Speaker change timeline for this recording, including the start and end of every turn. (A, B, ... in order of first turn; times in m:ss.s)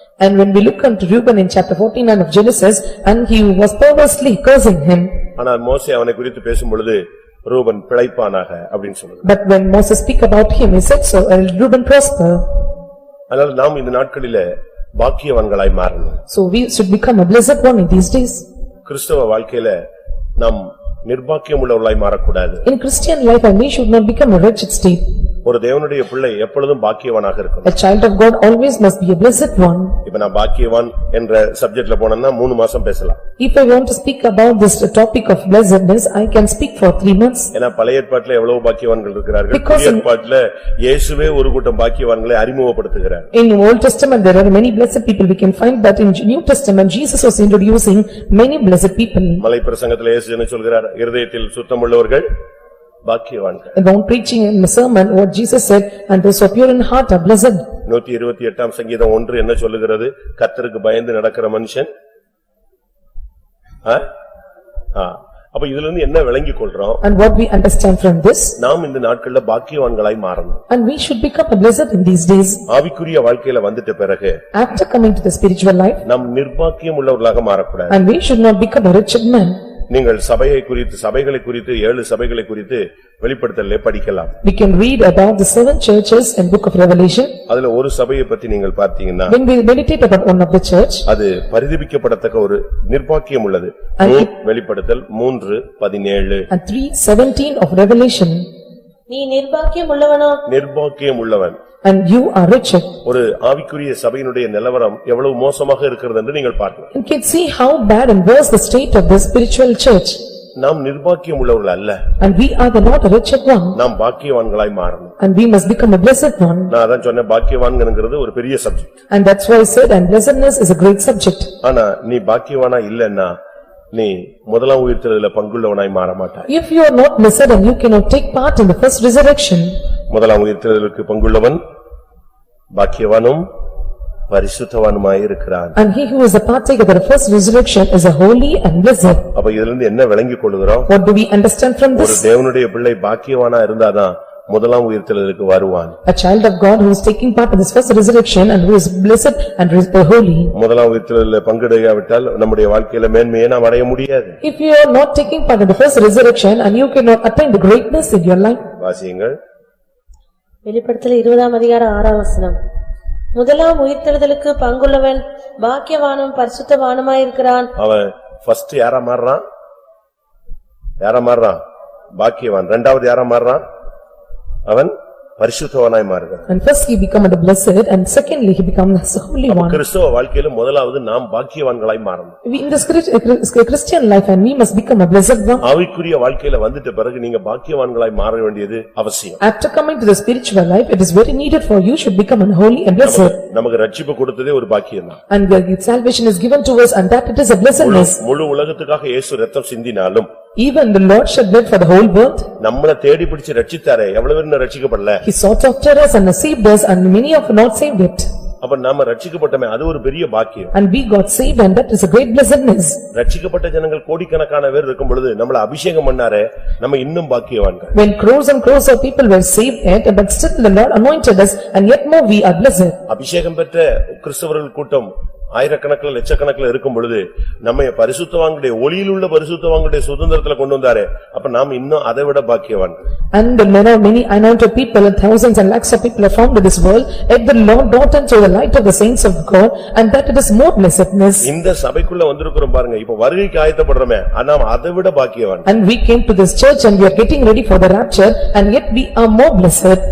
0:00.2-0:05.2 A
0:05.4-0:09.2 B
0:09.2-0:12.4 A
0:13.3-0:16.2 B
0:16.3-0:18.4 A
0:18.8-0:19.8 B
0:20.4-0:22.6 B
0:22.6-0:25.0 A
0:25.4-0:27.7 B
0:27.6-0:30.0 A
0:30.0-0:33.2 B
0:33.4-0:37.5 A
0:37.5-0:43.3 B
0:39.5-0:40.0 A
0:43.3-0:49.4 A
0:49.4-0:52.3 B
0:53.0-0:53.8 B
0:53.7-0:57.6 A
0:57.8-1:01.9 B
1:04.9-1:07.0 B
1:07.0-1:08.6 A
1:08.6-1:10.6 B
1:10.7-1:12.6 A
1:12.7-1:14.4 B
1:14.5-1:16.0 A
1:16.0-1:17.9 B
1:17.9-1:19.6 A
1:19.9-1:24.3 B
1:24.4-1:27.3 A
1:27.5-1:29.4 B
1:29.3-1:31.0 A
1:31.0-1:36.5 B
1:34.0-1:34.3 A
1:36.5-1:38.4 A
1:39.1-1:40.4 C
1:40.4-1:41.6 B
1:41.8-1:42.9 A
1:43.0-1:46.9 B
1:46.9-1:50.2 A
1:50.6-1:52.0 B
1:52.2-1:53.8 A
1:53.7-1:55.1 B
1:55.2-1:56.7 A
1:56.7-1:58.9 B
1:59.1-2:01.5 A
2:01.6-2:03.4 B
2:03.9-2:06.5 B
2:06.5-2:09.7 A
2:10.1-2:11.6 B
2:12.7-2:13.4 B
2:14.3-2:15.7 B
2:15.8-2:19.2 A
2:19.3-2:20.9 B
2:20.9-2:22.2 A
2:22.0-2:26.0 B
2:26.0-2:30.5 A
2:30.5-2:34.4 B
2:34.4-2:38.6 A
2:38.8-2:39.4 B
2:40.6-2:42.6 C
2:43.3-2:47.7 C
2:47.8-2:49.4 B
2:51.0-2:51.6 B
2:52.2-2:53.6 B
2:54.6-2:56.4 B
2:56.5-2:59.8 A
2:59.5-3:02.4 B
3:02.4-3:05.6 A
3:05.6-3:09.4 B
3:09.4-3:13.4 A
3:13.0-3:15.2 B
3:15.3-3:18.2 A
3:17.8-3:20.3 B
3:20.6-3:22.5 A
3:22.6-3:25.2 B
3:25.2-3:28.3 A
3:28.6-3:30.7 B
3:30.7-3:33.0 A
3:33.1-3:37.9 B
3:37.9-3:43.0 A
3:43.1-3:53.0 B
3:53.3-4:01.5 A
4:01.4-4:05.6 B
4:05.6-4:10.0 A